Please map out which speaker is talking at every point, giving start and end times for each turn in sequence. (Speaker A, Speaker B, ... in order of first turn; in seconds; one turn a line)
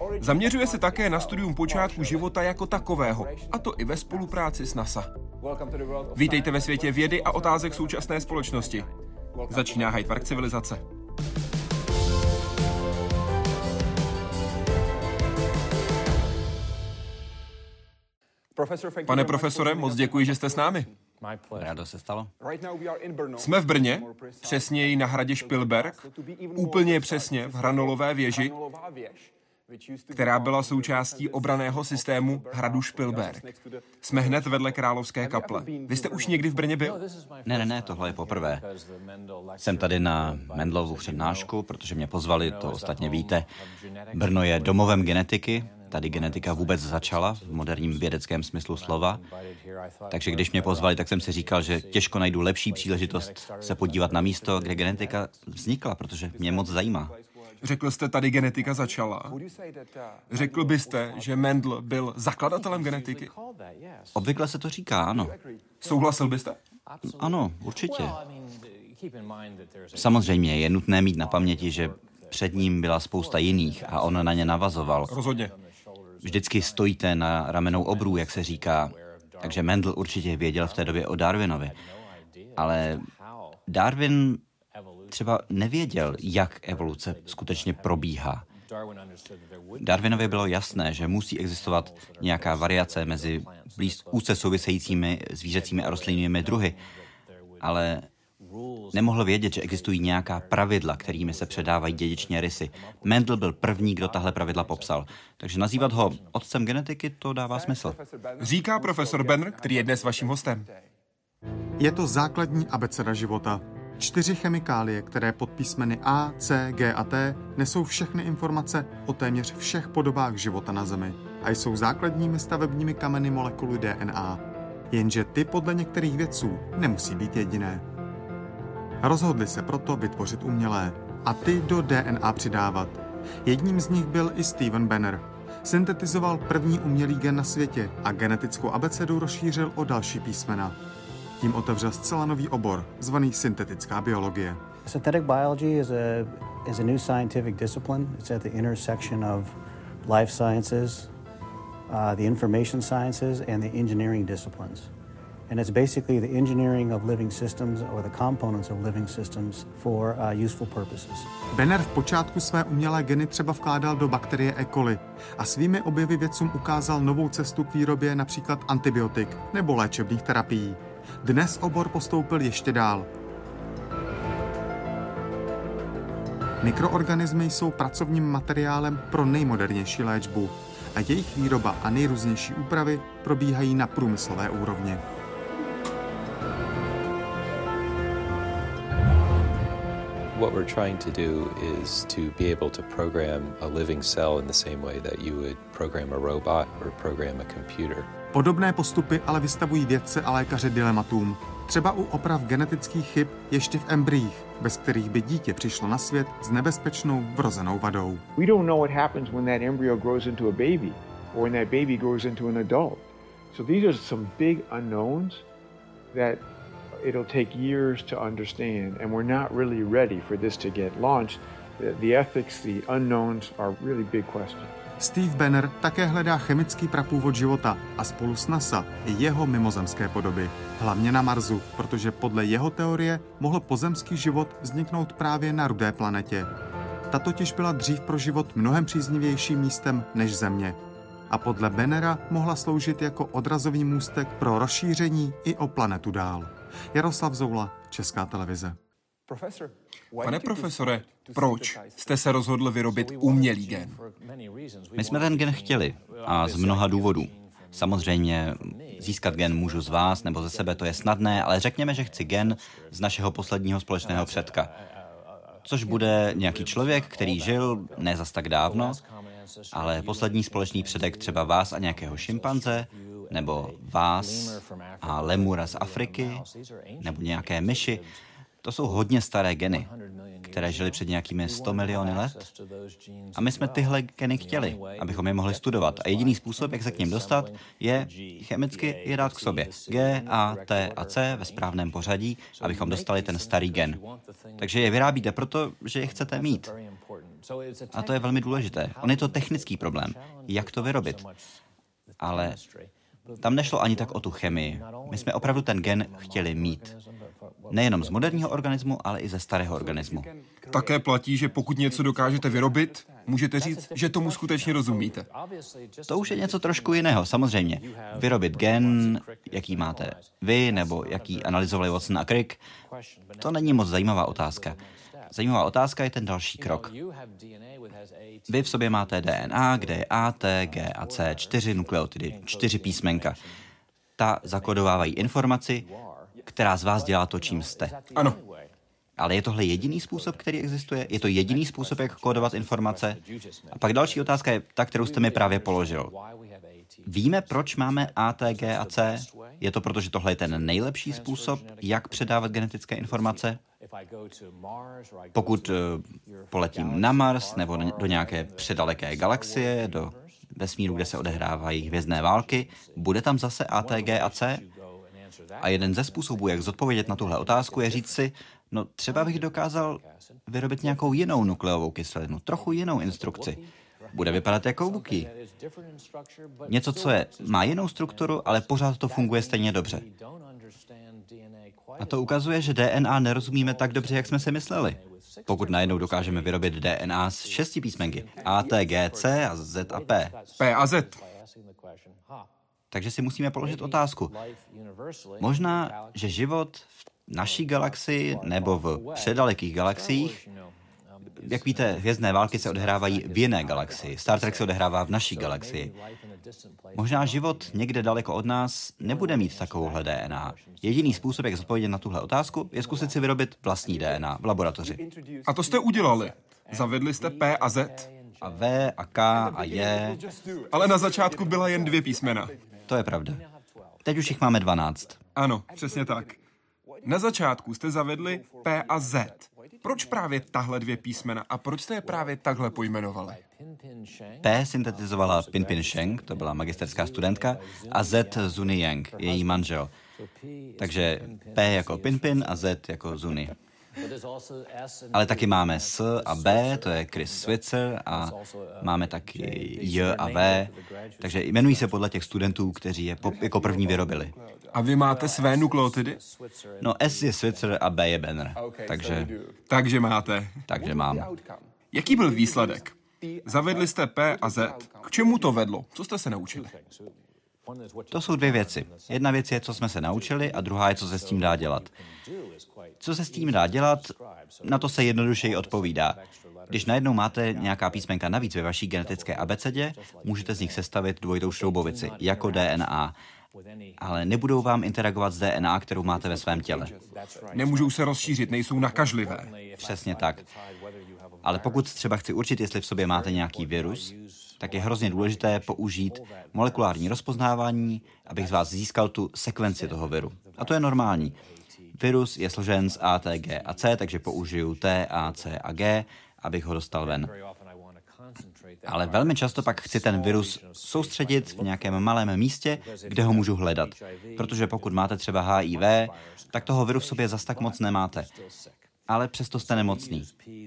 Speaker A: 0.2-5.1
Speaker A: 6.1-8.9
Speaker A: 9.5-10.8
Speaker A: 19.1-20.9
Speaker B: 21.5-22.3
Speaker A: 23.4-28.6
Speaker A: 30.1-33.5
Speaker A: 34.0-37.0
Speaker B: 37.5-38.6
Speaker B: 39.6-43.5
Speaker B: 44.1-49.2
Speaker B: 50.1-57.1
Speaker A: 57.6-59.4
Speaker A: 60.3-63.3
Speaker B: 64.1-65.3
Speaker A: 65.8-66.6
Speaker B: 67.0-68.2
Speaker B: 69.9-75.1
Speaker A: 75.1-75.5
Speaker B: 76.2-81.8
Speaker B: 82.6-83.1
Speaker B: 83.7-84.4
Speaker B: 85.1-88.5
Speaker B: 89.8-96.8
Speaker B: 97.6-98.1
Speaker B: 98.9-108.0
Speaker A: 108.4-110.7
Speaker C: 111.8-127.8
Speaker C: 129.0-140.8
Speaker C: 141.4-144.6
Speaker D: 144.8-151.1
Speaker D: 151.9-154.9
Speaker D: 155.5-161.3
Speaker C: 161.5-173.1
Speaker C: 176.6-185.0
Speaker E: 190.3-198.1
Speaker C: 198.3-208.3
Speaker F: 208.4-215.4
Speaker F: 216.1-216.5
Speaker F: 217.0-224.7
Speaker C: 225.0-236.5
Speaker C: 237.1-240.8
Speaker C: 241.3-248.8
Speaker A: 250.2-254.0
Speaker B: 255.0-264.7
Speaker B: 265.6-269.0
Speaker B: 269.7-276.5
Speaker B: 277.0-278.1
Speaker B: 278.6-279.9
Speaker B: 280.5-282.5
Speaker B: 283.4-294.0
Speaker B: 294.6-296.7
Speaker B: 297.9-301.3
Speaker B: 302.2-302.6
Speaker B: 303.4-306.9
Speaker B: 307.7-310.3
Speaker A: 310.7-315.3
Speaker B: 316.1-322.6
Speaker B: 323.4-326.9
Speaker B: 328.5-333.4
Speaker B: 334.2-335.9
Speaker B: 336.5-338.0
Speaker A: 338.1-338.4
Speaker B: 339.2-343.2
Speaker B: 343.7-346.1
Speaker B: 347.1-353.6
Speaker B: 355.3-364.7
Speaker B: 365.6-375.3
Speaker B: 376.7-380.1
Speaker B: 382.0-390.4
Speaker A: 390.6-391.2
Speaker B: 392.9-394.4
Speaker B: 395.4-400.4
Speaker B: 401.4-405.9
Speaker B: 406.9-415.0
Speaker A: 415.4-418.1
Speaker B: 418.4-420.2
Speaker A: 420.7-422.6
Speaker B: 422.9-423.4
Speaker B: 424.0-425.2
Speaker A: 425.4-426.4
Speaker A: 427.0-433.4
Speaker B: 434.4-439.9
Speaker B: 440.8-443.6
Speaker B: 445.1-454.3
Speaker A: 454.7-456.2
Speaker B: 456.8-459.3
Speaker A: 459.7-460.7
Speaker B: 460.7-461.3
Speaker A: 461.9-466.8
Speaker B: 468.1-471.9
Speaker B: 473.0-483.1
Speaker B: 484.0-487.0
Speaker A: 487.5-489.5
Speaker B: 489.8-490.5
Speaker B: 491.4-501.4
Speaker B: 501.9-507.3
Speaker B: 508.9-518.3
Speaker B: 519.1-520.3